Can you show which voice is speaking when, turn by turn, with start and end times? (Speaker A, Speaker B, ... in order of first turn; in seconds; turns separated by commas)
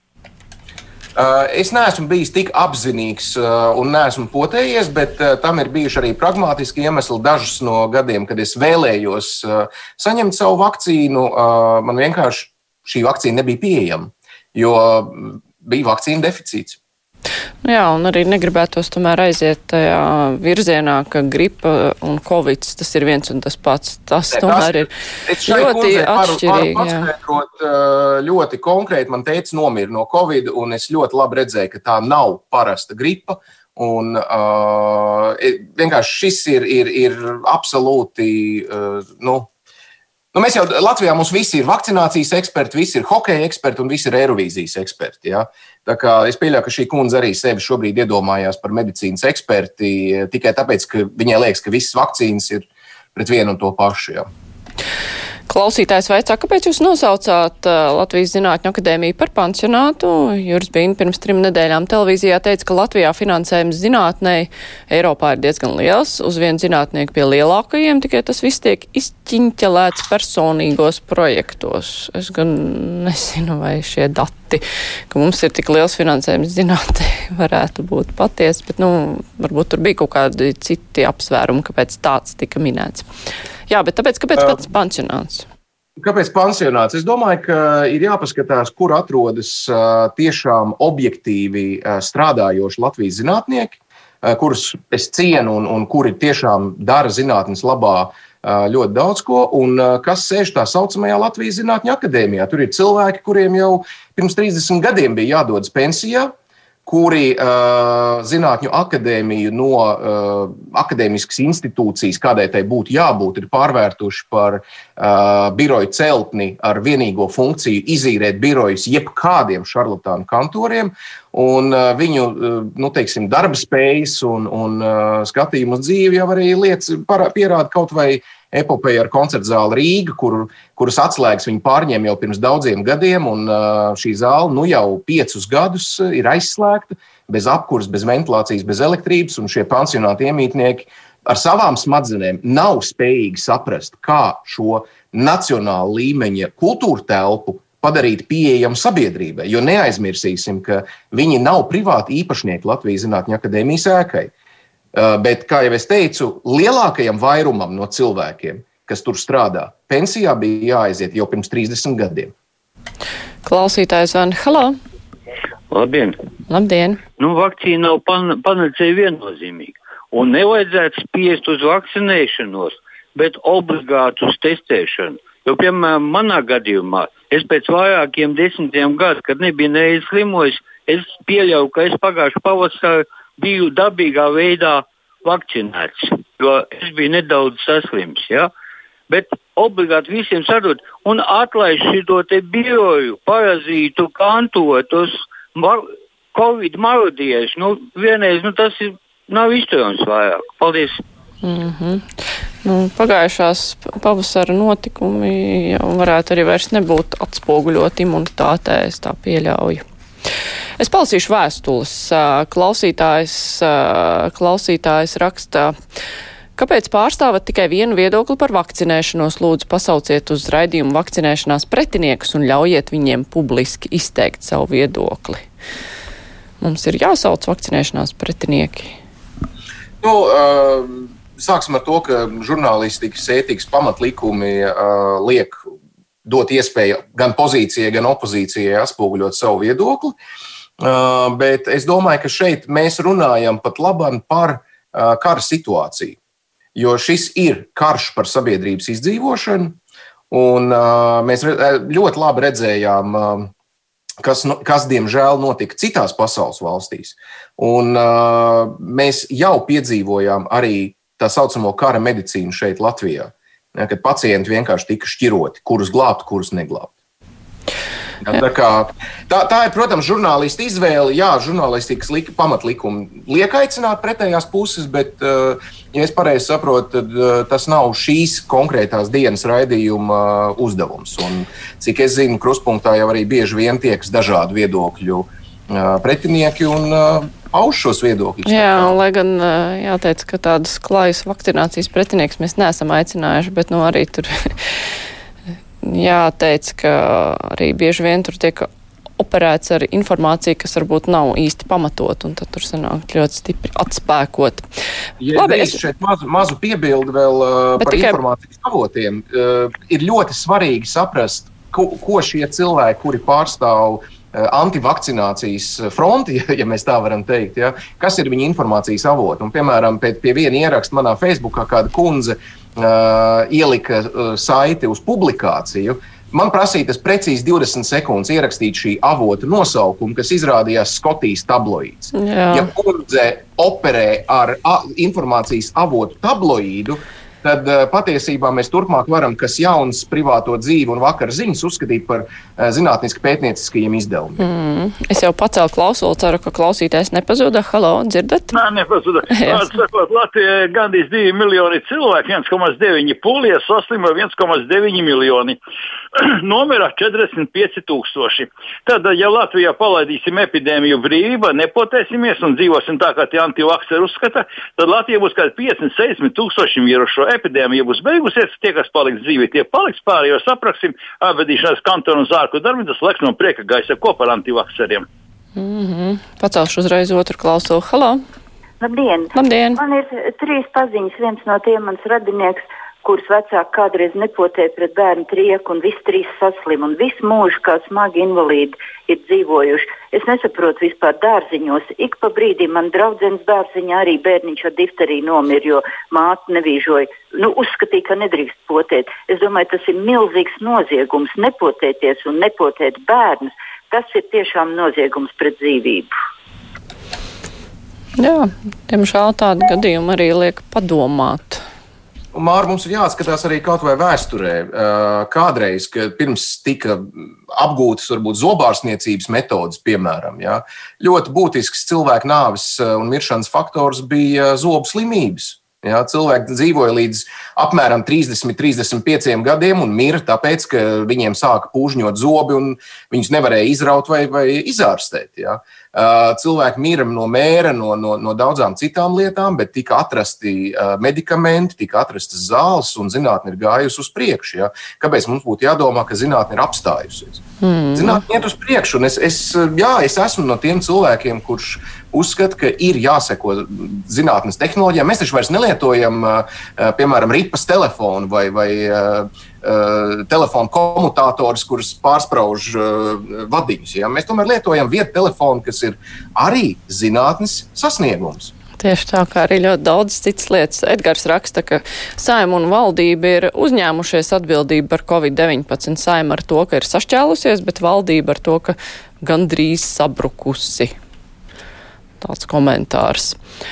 Speaker A: 1.1-16.8, Speaker B: 17.6-24.9, Speaker A: 24.3-39.5, Speaker B: 25.4-27.1, Speaker A: 40.3-54.3, Speaker B: 55.5-83.1, Speaker B: 83.7-85.5, Speaker A: 86.0-106.3, Speaker A: 106.8-154.3, Speaker A: 154.9-162.3, Speaker B: 163.4-164.8, Speaker C: 165.7-166.2, Speaker B: 166.5-167.0, Speaker C: 167.2-188.5, Speaker C: 189.1-201.0, Speaker B: 201.4-202.1, Speaker B: 202.6-209.8, Speaker B: 210.8-215.8, Speaker B: 216.6-225.5, Speaker B: 226.6-229.0, Speaker A: 230.0-235.6, Speaker A: 236.2-240.2, Speaker A: 240.8-246.2, Speaker A: 246.8-249.8, Speaker A: 250.3-253.5, Speaker A: 254.2-266.9, Speaker A: 268.2-289.0, Speaker B: 288.5-294.9, Speaker B: 295.8-298.7, Speaker B: 299.2-304.7, Speaker A: 305.2-344.5, Speaker B: 305.3-305.8, Speaker B: 307.8-308.2, Speaker B: 332.1-332.7, Speaker B: 344.4-348.5, Speaker D: 348.5-355.6, Speaker B: 349.3-349.7, Speaker D: 356.1-375.1, Speaker B: 375.6-378.2, Speaker E: 378.8-406.1, Speaker B: 379.4-379.8, Speaker B: 408.2-411.6, Speaker A: 412.3-447.4, Speaker B: 447.6-448.2, Speaker A: 447.9-468.5, Speaker B: 468.8-480.9, Speaker B: 482.2-483.4